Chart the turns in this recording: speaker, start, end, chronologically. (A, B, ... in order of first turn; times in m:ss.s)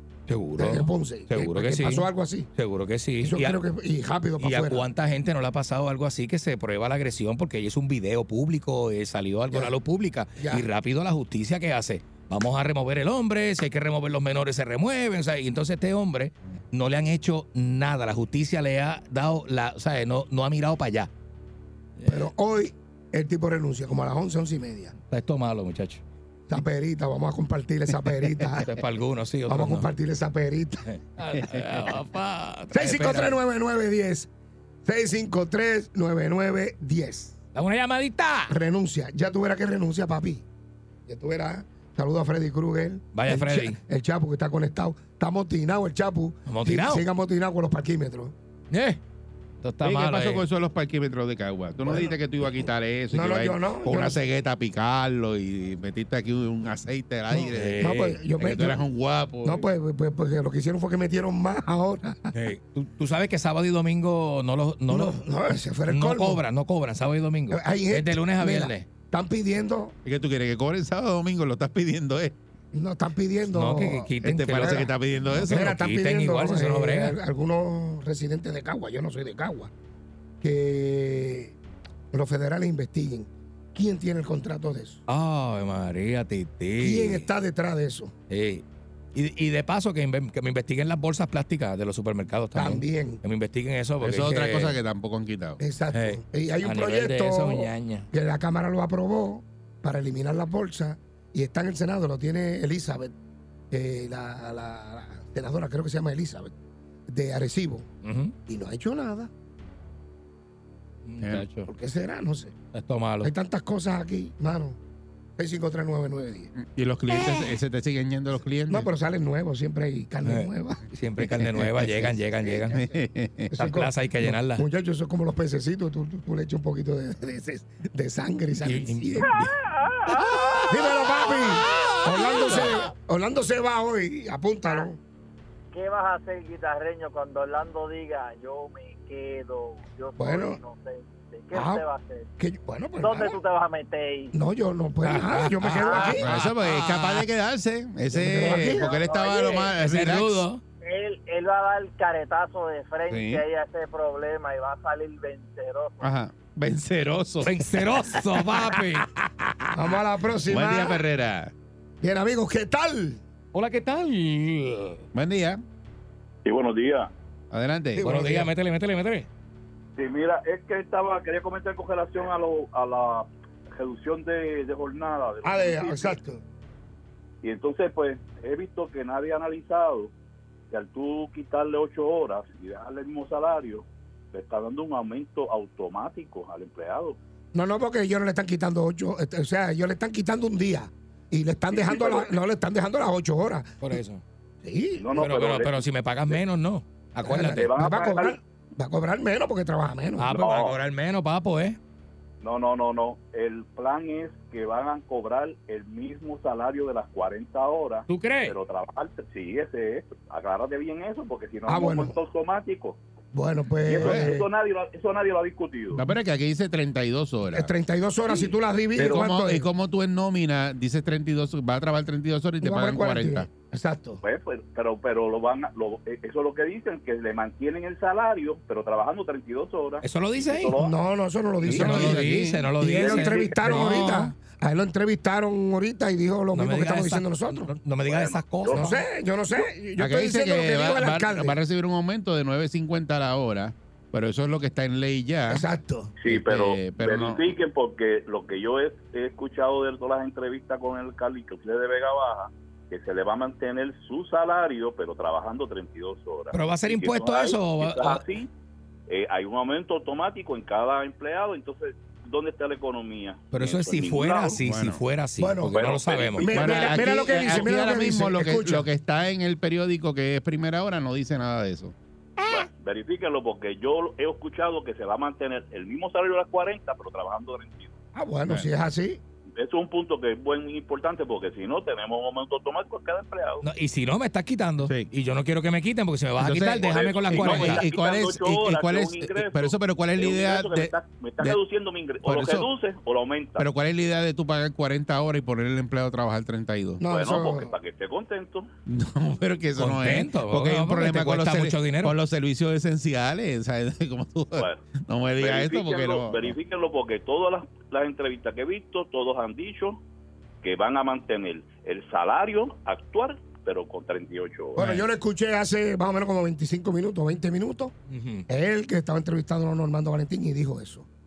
0:00.3-0:03.6 A
0:00.6-0:02.5 B
0:03.2-0:04.9 B
0:04.4-0:21.1 A
0:09.5-0:09.8 B
0:10.4-0:10.7 B
0:22.0-0:22.3 A
0:22.1-0:24.9 B
0:25.1-0:26.0 A
0:26.5-0:28.8 B
0:28.6-0:29.9 A
0:29.5-0:30.9 B
0:30.9-0:33.4 A
0:31.3-0:31.9 C
0:32.7-0:34.3 B
0:34.8-0:37.4 B
0:37.5-0:38.6 A
0:38.5-0:40.4 B
0:41.1-0:48.4 B
0:43.1-0:43.8 A
0:46.5-0:47.1 A
0:48.7-0:49.0 A
0:49.6-0:50.5 A
0:49.8-0:59.6 C
0:51.8-0:52.2 B
0:53.1-0:54.2 B
0:57.4-0:58.2 A
0:57.8-0:58.8 B
0:59.4-1:02.3 B
1:02.3-1:05.2 A
1:04.9-1:06.4 B
1:05.9-1:08.9 A
1:07.5-1:10.0 B
1:10.0-1:12.4 C
1:12.7-1:19.7 B
1:13.5-1:17.2 A
1:14.2-1:15.8 C
1:20.4-1:21.6 B
1:22.1-1:25.0 B
1:25.1-1:27.3 A
1:26.8-1:28.1 B
1:28.3-1:34.8 A
1:32.5-1:33.2 B
1:34.0-1:35.6 C
1:35.6-1:43.1 B
1:35.9-1:38.1 A
1:43.7-1:46.5 B
1:47.1-1:47.9 B
1:48.0-1:48.4 A
1:48.5-1:49.3 B
1:51.0-1:51.7 A
1:51.7-1:52.5 B
1:52.7-1:53.3 A
1:53.2-1:54.8 B
1:55.4-1:56.5 B
1:56.6-1:58.9 C
1:58.7-2:03.0 B
2:00.2-2:02.8 A
2:02.8-2:03.5 C
2:03.5-2:09.4 B
2:03.5-2:04.6 A
2:08.6-2:09.5 A
2:09.8-2:10.7 D
2:10.7-2:15.0 B
2:15.7-2:22.3 D
2:20.2-2:20.6 B
2:21.5-2:21.8 B
2:22.4-2:23.4 B
2:23.0-2:24.3 D
2:24.3-2:26.3 B
2:25.0-2:27.3 A
2:25.8-2:26.1 D
2:26.0-2:30.4 C
2:28.2-2:28.8 A
2:28.2-2:28.9 B
2:28.9-2:29.8 D
2:29.8-2:30.6 A
2:30.8-2:36.1 D
2:33.1-2:33.4 C
2:36.0-2:37.6 C
2:37.4-2:39.1 A
2:39.7-2:41.0 B
2:40.5-2:41.5 C
2:42.0-2:43.2 B
2:43.5-2:45.1 A
2:45.1-2:45.6 C
2:46.4-2:47.1 E
2:47.5-2:48.1 C
2:48.0-2:48.5 B
2:48.0-2:49.3 A
2:50.0-2:56.2 E
2:55.4-2:56.4 B
2:57.4-3:00.1 E
3:00.7-3:07.2 E
3:07.5-3:14.0 B
3:11.7-3:12.3 E
3:13.8-3:14.2 A
3:14.6-3:15.0 B
3:15.0-3:16.4 E
3:15.2-3:17.7 A
3:17.2-3:20.4 B
3:17.5-3:18.4 E
3:20.2-3:21.8 A
3:20.4-3:20.8 E
3:22.4-3:33.0 E
3:28.1-3:28.6 A
3:31.7-3:32.2 B
3:33.3-3:34.5 B
3:33.8-3:36.0 E
3:34.0-3:34.3 C
3:36.0-3:37.7 C
3:37.5-3:39.7 B
3:38.3-3:43.5 C
3:42.6-3:44.2 B
3:44.2-3:51.0 E
3:50.0-3:50.8 A
3:50.8-3:52.3 B
3:51.6-3:52.7 C
3:51.7-3:54.3 A
3:52.8-3:57.7 B
3:53.0-3:53.6 E
3:56.5-3:59.0 A
3:58.1-3:58.9 E
3:58.7-4:01.6 B
4:00.0-4:05.7 C
4:05.5-4:06.1 B
4:06.2-4:18.5 E
4:06.3-4:07.5 C
4:16.5-4:18.2 A
4:19.1-4:24.6 E
4:23.5-4:26.7 A
4:24.6-4:25.0 C
4:25.4-4:25.8 B
4:25.7-4:27.6 E
4:26.4-4:28.9 B
4:26.5-4:32.0 C
4:32.5-4:37.9 E
4:38.1-4:39.2 B
4:39.6-4:43.6 E
4:43.6-4:47.8 A
4:44.8-4:45.1 C
4:46.4-4:51.6 C
4:46.9-4:53.7 E
4:52.2-4:52.7 C
4:53.6-4:57.0 C
4:57.0-4:57.7 B
4:57.1-4:58.7 E
4:58.9-5:06.6 C
4:59.8-5:02.2 A
5:04.6-5:04.8 E
5:05.4-5:10.0 E
5:10.6-5:14.8 E
5:14.8-5:17.9 B
5:14.8-5:15.0 A
5:18.1-5:18.5 A
5:18.5-5:21.1 B